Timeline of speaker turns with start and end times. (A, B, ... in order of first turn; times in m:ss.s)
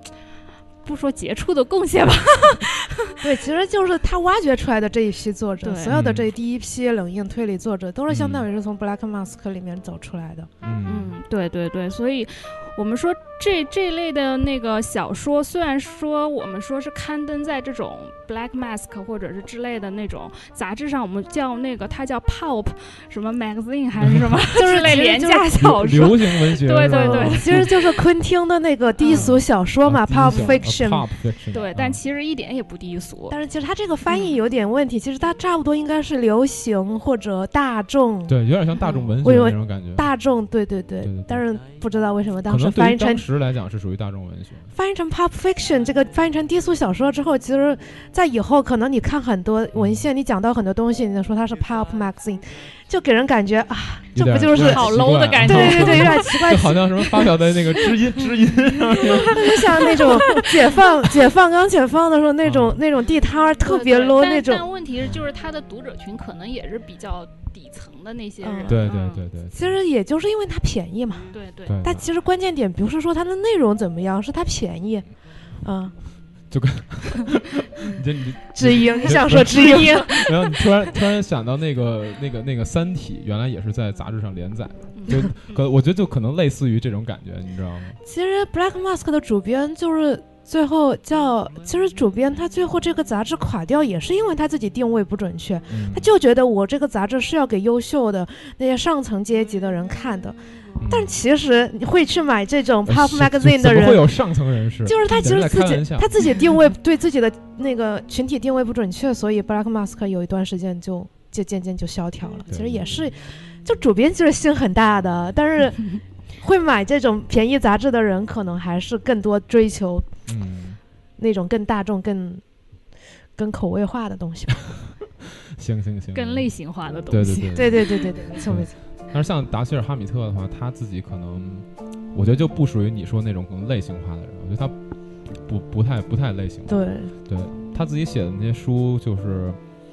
0:00.8-0:03.2 A
0:03.2-0:10.5 B
0:05.6-0:06.0 A
0:05.9-0:06.3 C
0:08.1-0:08.5 C
0:10.6-0:11.2 C
0:10.9-0:27.9 A
0:24.0-0:24.3 C
0:24.5-0:26.2 B
0:25.6-0:27.8 C
0:26.9-0:31.1 B
0:29.0-0:29.3 A
0:29.1-0:32.0 C
0:31.5-0:33.4 A
0:33.3-0:38.4 B
0:38.3-0:40.1 C
0:38.8-0:39.1 A
0:39.2-0:43.2 B
0:41.0-0:41.4 C
0:42.5-0:44.7 C
0:44.7-0:57.3 B
0:49.8-0:50.1 C
0:54.2-1:00.2 C
0:54.5-0:56.6 A
0:59.0-1:04.7 B
0:59.0-1:00.7 A
1:02.4-1:02.8 C
1:03.6-1:09.2 A
1:08.4-1:08.8 B
1:08.7-1:09.8 C
1:09.5-1:15.1 B
1:11.3-1:11.8 A
1:11.7-1:12.1 C
1:15.6-1:15.9 B
1:16.5-1:28.0 C
1:18.6-1:20.7 B
1:25.0-1:25.6 A
1:28.0-1:40.4 B
1:35.7-1:36.1 C
1:40.8-1:41.2 C
1:40.9-1:44.2 B
1:42.8-1:46.3 C
1:44.8-2:00.1 B
1:52.5-1:53.0 C
2:00.3-2:00.8 C
2:01.2-2:02.4 B
2:03.4-2:04.8 B
2:05.6-2:06.5 C
2:06.1-2:08.0 A
2:07.1-2:14.8 C
2:07.5-2:08.7 B
2:15.3-2:19.6 C
2:16.7-2:17.1 B